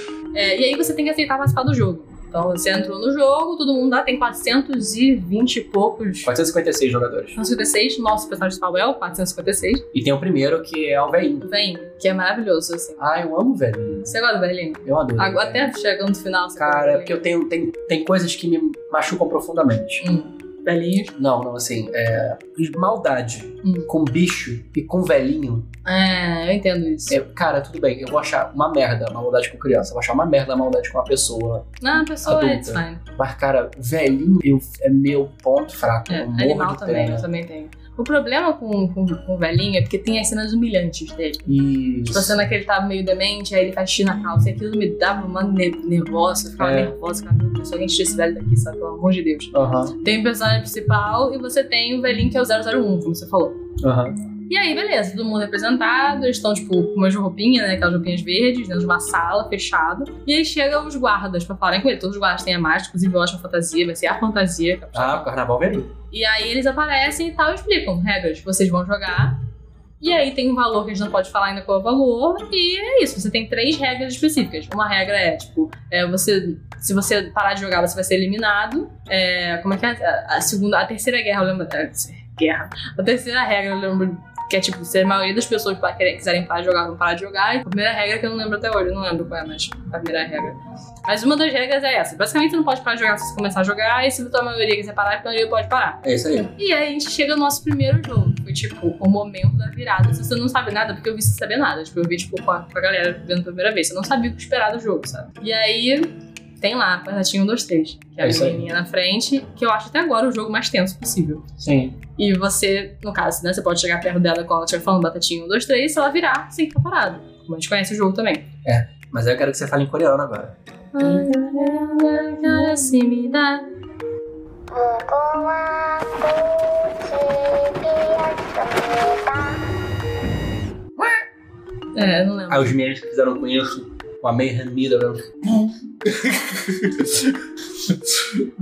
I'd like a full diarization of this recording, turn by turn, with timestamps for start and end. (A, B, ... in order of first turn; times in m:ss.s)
0:00.3-0:06.3 A
0:06.2-0:07.4 B
0:07.4-0:09.8 A
0:09.9-0:11.5 B
0:11.4-0:13.0 A
0:13.0-0:14.1 B
0:14.1-0:17.2 A
0:14.8-0:15.7 B
0:16.6-0:20.0 B
0:20.0-0:21.1 A
0:21.1-0:25.7 B
0:23.6-0:23.9 A
0:25.8-0:27.2 A
0:27.1-0:37.3 B
0:31.8-0:33.0 A
0:36.1-0:53.6 A
0:41.5-0:42.4 B
0:46.6-0:46.9 B
0:49.5-0:49.9 B
0:53.8-0:54.2 B
0:54.5-1:05.3 A
1:04.9-1:05.9 B
1:06.1-1:09.4 A
1:10.0-1:51.4 A
1:36.0-1:36.5 B
1:48.2-1:48.6 B
1:51.6-1:52.0 B
1:52.2-1:58.4 A
1:58.6-2:00.6 B
2:00.9-2:03.7 A
2:11.9-2:12.7 A
2:12.5-2:18.4 B